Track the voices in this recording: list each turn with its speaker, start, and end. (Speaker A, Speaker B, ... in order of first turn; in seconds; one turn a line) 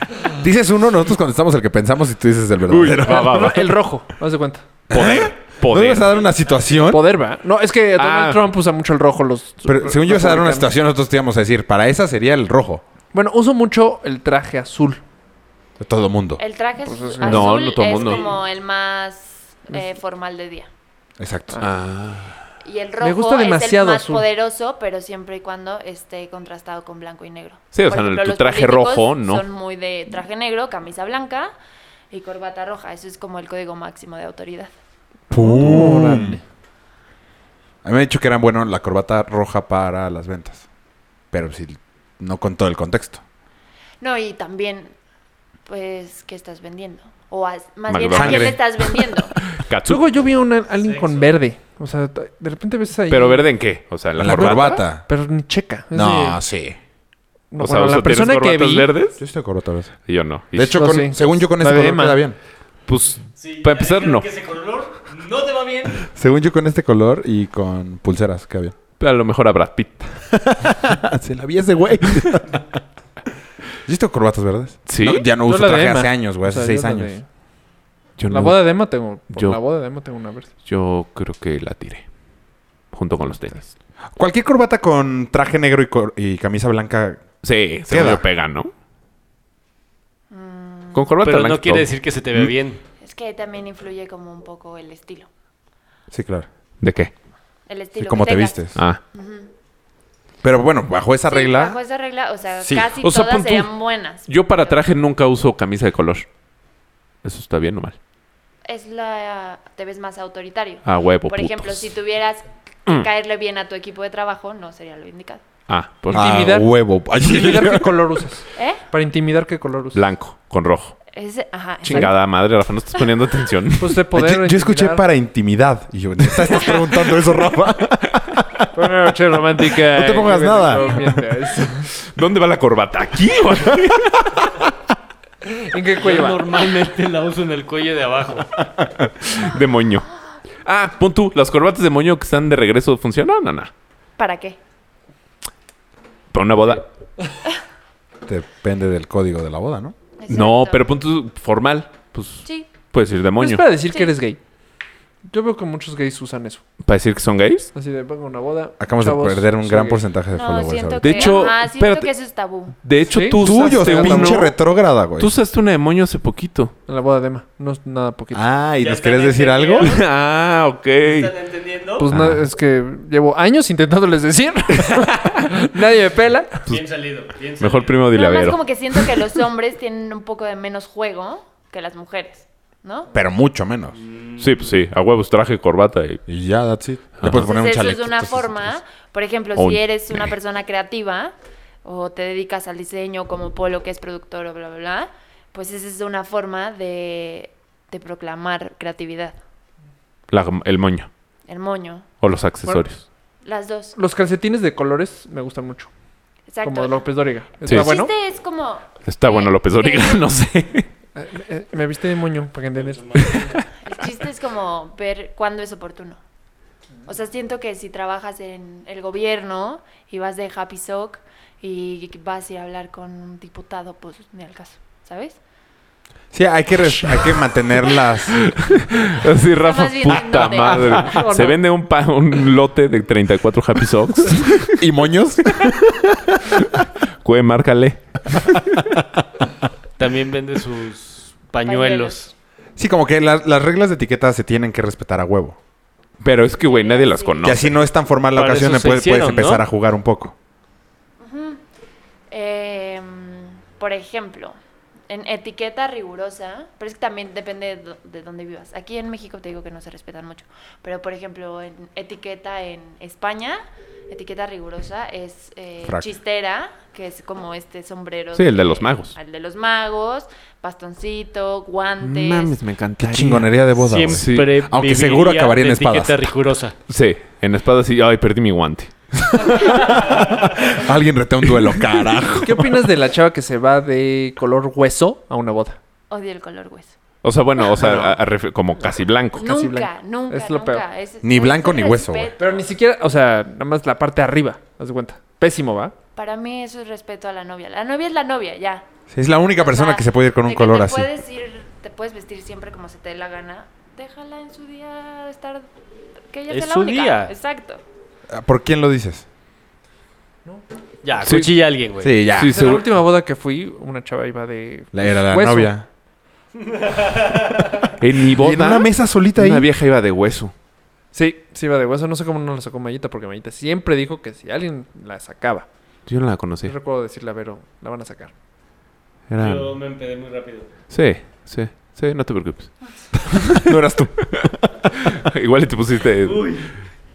Speaker A: 0.4-3.5
Speaker B: 2.7-3.8
Speaker C: 3.0-4.7
Speaker A: 4.9-7.0
Speaker B: 4.9-6.2
Speaker C: 6.9-10.7
Speaker B: 8.0-8.5
Speaker A: 9.7-12.8
Speaker C: 13.1-15.0
Speaker A: 15.8-16.4
Speaker D: 16.4-20.7
Speaker C: 16.8-17.7
Speaker B: 17.2-18.3
Speaker A: 21.2-21.6
Speaker B: 21.6-22.4
Speaker D: 22.6-31.5
Speaker C: 23.0-24.3
Speaker B: 27.7-29.4
Speaker D: 32.1-34.7
Speaker A: 35.3-36.4
Speaker C: 35.3-36.4
Speaker A: 37.8-40.7
Speaker A: 41.3-43.2
Speaker D: 44.0-44.9
Speaker D: 45.7-49.4
Speaker B: 47.9-48.7
Speaker A: 48.1-48.6
Speaker B: 49.5-50.1
Speaker C: 49.9-53.6
Speaker E: 50.8-51.3
Speaker B: 53.1-54.8
Speaker A: 54.2-55.0
Speaker C: 54.2-56.4
Speaker A: 55.9-56.8
Speaker C: 57.5-59.0
Speaker B: 57.6-59.2
Speaker A: 59.2-60.0
Speaker B: 60.1-61.0
Speaker A: 60.5-62.4
Speaker C: 60.7-62.2
Speaker B: 62.9-64.3
Speaker E: 63.4-66.0
Speaker A: 66.0-68.8
Speaker B: 69.0-70.2
Speaker A: 70.4-72.6
Speaker A: 73.9-77.2
Speaker B: 74.9-75.3
Speaker C: 75.3-77.3
Speaker B: 78.2-79.6
Speaker C: 78.3-80.5
Speaker B: 80.6-82.1
Speaker B: 82.9-83.7
Speaker A: 84.2-87.3
Speaker B: 87.4-88.7
Speaker A: 87.9-88.2
Speaker D: 90.3-91.1
Speaker B: 90.9-91.9
Speaker E: 91.2-92.8
Speaker D: 93.0-95.3
Speaker A: 96.1-96.5
Speaker B: 96.8-97.1
Speaker D: 97.7-99.5
Speaker A: 98.0-98.8
Speaker B: 98.8-99.0
Speaker A: 100.4-101.8
Speaker D: 101.3-104.8
Speaker A: 102.6-102.9
Speaker B: 103.0-103.7
Speaker B: 104.2-106.3
Speaker B: 107.2-108.0
Speaker D: 108.7-115.4
Speaker B: 110.8-111.9
Speaker B: 115.7-116.3
Speaker A: 116.1-118.0
Speaker C: 116.1-120.0
Speaker D: 118.5-118.8
Speaker B: 119.9-121.0
Speaker D: 121.1-122.2
Speaker C: 121.8-122.1
Speaker B: 121.8-124.0
Speaker C: 123.8-125.0
Speaker A: 124.1-128.9
Speaker C: 128.7-131.9
Speaker A: 129.8-131.2
Speaker B: 131.8-134.6
Speaker C: 135.4-136.6
Speaker E: 136.0-138.5
Speaker B: 139.2-140.1
Speaker B: 140.6-143.7
Speaker D: 144.2-144.6
Speaker B: 146.3-146.9
Speaker A: 148.2-149.9
Speaker D: 150.2-150.9
Speaker B: 150.3-153.7
Speaker C: 153.4-154.4
Speaker C: 155.3-156.6
Speaker B: 156.8-157.7
Speaker C: 157.7-160.1
Speaker A: 158.8-161.3
Speaker D: 160.3-162.8
Speaker B: 161.0-162.1
Speaker B: 162.8-164.6
Speaker C: 163.1-164.5
Speaker A: 163.4-165.3
Speaker B: 165.2-166.7
Speaker C: 166.9-168.5
Speaker A: 168.3-169.9
Speaker E: 168.8-170.0
Speaker B: 169.8-171.3
Speaker E: 171.0-172.1
Speaker C: 172.0-176.7
Speaker B: 172.1-172.4
Speaker E: 176.7-178.1
Speaker B: 176.7-179.2
Speaker D: 178.1-183.1
Speaker A: 183.1-184.0
Speaker E: 183.9-184.7
Speaker B: 184.4-186.2
Speaker A: 186.3-188.8
Speaker B: 187.2-187.5
Speaker D: 187.3-199.4
Speaker B: 189.6-190.3
Speaker B: 200.3-201.1
Speaker D: 201.5-202.1
Speaker B: 202.2-203.1
Speaker D: 203.4-204.0
Speaker C: 204.0-205.9
Speaker D: 206.5-210.2
Speaker C: 206.6-208.1
Speaker B: 207.7-207.9
Speaker B: 209.1-210.9
Speaker C: 211.2-213.6
Speaker E: 213.1-213.4
Speaker D: 213.8-216.2
Speaker D: 217.1-225.4
Speaker A: 226.3-228.5
Speaker B: 228.3-234.8
Speaker D: 229.6-231.4
Speaker C: 230.8-231.6
Speaker A: 234.7-236.6
Speaker B: 236.6-238.6
Speaker E: 240.0-242.3
Speaker D: 241.6-242.2
Speaker A: 242.8-245.6
Speaker B: 246.2-247.8
Speaker D: 246.6-247.5
Speaker A: 247.4-250.3
Speaker E: 248.4-249.7
Speaker D: 251.2-251.6
Speaker D: 252.3-254.6
Speaker D: 255.1-272.6
Speaker B: 268.3-269.2
Speaker B: 272.0-273.6
Speaker A: 273.0-276.3
Speaker E: 273.9-276.8
Speaker B: 274.1-274.5
Speaker B: 276.9-278.9
Speaker A: 279.2-282.8
Speaker C: 282.4-285.8
Speaker D: 286.1-286.9
Speaker B: 287.2-289.5
Speaker D: 287.7-288.0
Speaker C: 287.8-288.1
Speaker D: 289.4-292.6
Speaker C: 289.4-290.8
Speaker A: 291.2-292.3
Speaker C: 292.4-295.9
Speaker D: 296.2-298.9
Speaker A: 299.1-301.1
Speaker D: 299.6-305.7
Speaker D: 306.3-307.8
Speaker E: 306.5-307.3
Speaker A: 308.3-309.2
Speaker E: 311.0-312.1
Speaker B: 311.2-311.5
Speaker A: 312.0-312.7
Speaker B: 312.3-312.9
Speaker C: 312.4-315.7
Speaker A: 314.9-315.9
Speaker B: 318.0-320.5
Speaker A: 318.3-319.7
Speaker C: 321.1-325.7
Speaker B: 326.1-326.8
Speaker C: 326.6-328.3
Speaker B: 329.3-329.8
Speaker E: 329.4-330.7
Speaker B: 330.9-333.8
Speaker A: 333.5-334.7
Speaker B: 335.0-336.8
Speaker E: 336.2-336.7